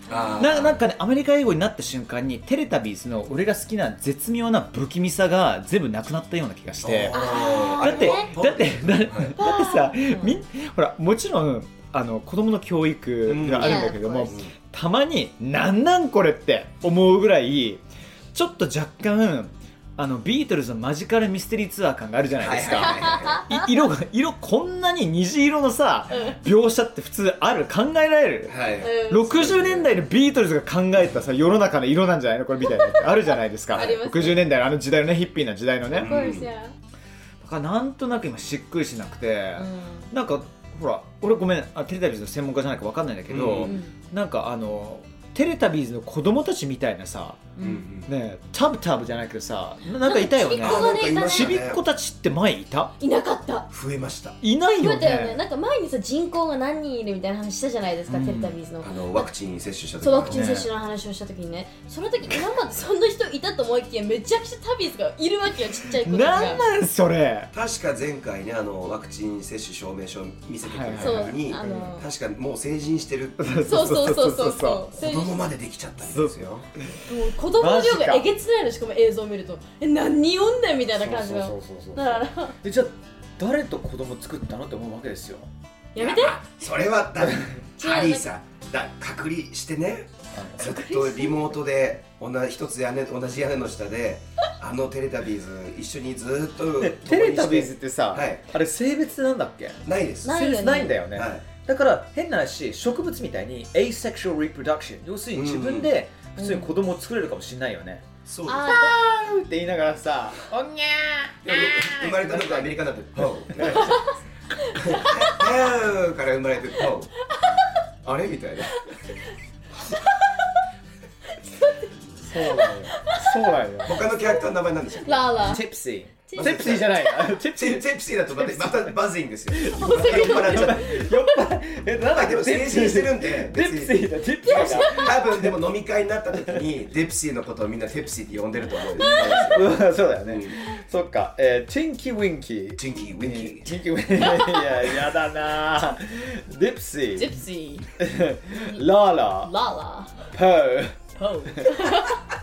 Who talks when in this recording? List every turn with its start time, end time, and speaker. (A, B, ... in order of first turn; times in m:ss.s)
0:00.1-0:00.8 A
0:00.4-0:07.3 B
0:06.8-0:09.4 A
0:07.1-0:08.3 C
0:07.8-0:36.1 B
0:09.4-0:10.4 C
0:13.3-0:14.5 A
0:13.6-0:14.4 C
0:22.4-0:23.4 A
0:22.8-0:23.5 C
0:26.1-0:26.4 C
0:28.5-0:29.9 A
0:28.8-0:29.7 C
0:33.7-0:34.5 C
0:35.9-0:36.5 A
0:35.9-0:36.8 C
0:37.4-0:47.5 B
0:39.6-0:40.1 C
0:43.3-0:43.8 A
0:43.6-0:43.9 C
0:47.6-0:47.8 C
0:47.6-0:48.1 A
0:48.1-0:52.9 B
0:50.0-0:51.6 C
0:50.6-0:51.8 A
0:53.0-0:53.7 C
0:53.7-0:54.4 A
0:54.4-0:55.4 B
0:54.8-0:59.3 C
0:58.1-0:58.6 B
0:58.8-1:00.4 A
1:00.0-1:06.6 C
1:00.3-1:00.7 B
1:06.0-1:07.5 B
1:07.5-1:13.6 A
1:10.6-1:11.9 B
1:11.0-1:12.1 C
1:13.4-1:14.8 B
1:13.7-1:15.4 C
1:14.9-1:16.7 A
1:16.0-1:17.0 B
1:17.0-1:22.6 C
1:17.5-1:18.3 B
1:21.0-1:25.5 B
1:26.0-1:26.4 C
1:26.0-1:38.4 A
1:27.8-1:28.3 C
1:30.3-1:30.7 B
1:30.6-1:31.5 C
1:36.8-1:48.1 B
1:39.8-1:40.3 A
1:40.2-1:41.0 C
1:41.1-1:41.4 A
1:45.4-1:45.9 A
1:46.4-1:46.7 C
1:48.3-1:48.8 A
1:48.5-1:49.0 C
1:48.7-1:52.7 B
1:51.4-1:54.0 A
1:53.5-1:54.0 B
1:53.8-1:54.1 C
1:54.7-1:55.4 C
1:54.8-1:57.1 A
1:58.0-1:58.9 A
1:59.9-2:00.6 C
2:01.4-2:05.6 C
2:02.2-2:04.0 B
2:03.8-2:05.4 A
2:05.4-2:08.9 B
2:06.3-2:07.1 C
2:06.3-2:11.0 A
2:09.5-2:15.5 B
2:09.6-2:11.4 C
2:12.1-2:20.6 A
2:14.4-2:15.2 C
2:19.0-2:19.6 C
2:19.1-2:27.3 B
2:22.8-2:23.8 A
2:24.2-2:24.9 C
2:27.2-2:27.9 C
2:28.0-2:29.5 B
2:28.5-2:28.9 C
2:29.4-2:30.2 C
2:30.3-2:31.7 B
2:31.2-2:32.2 C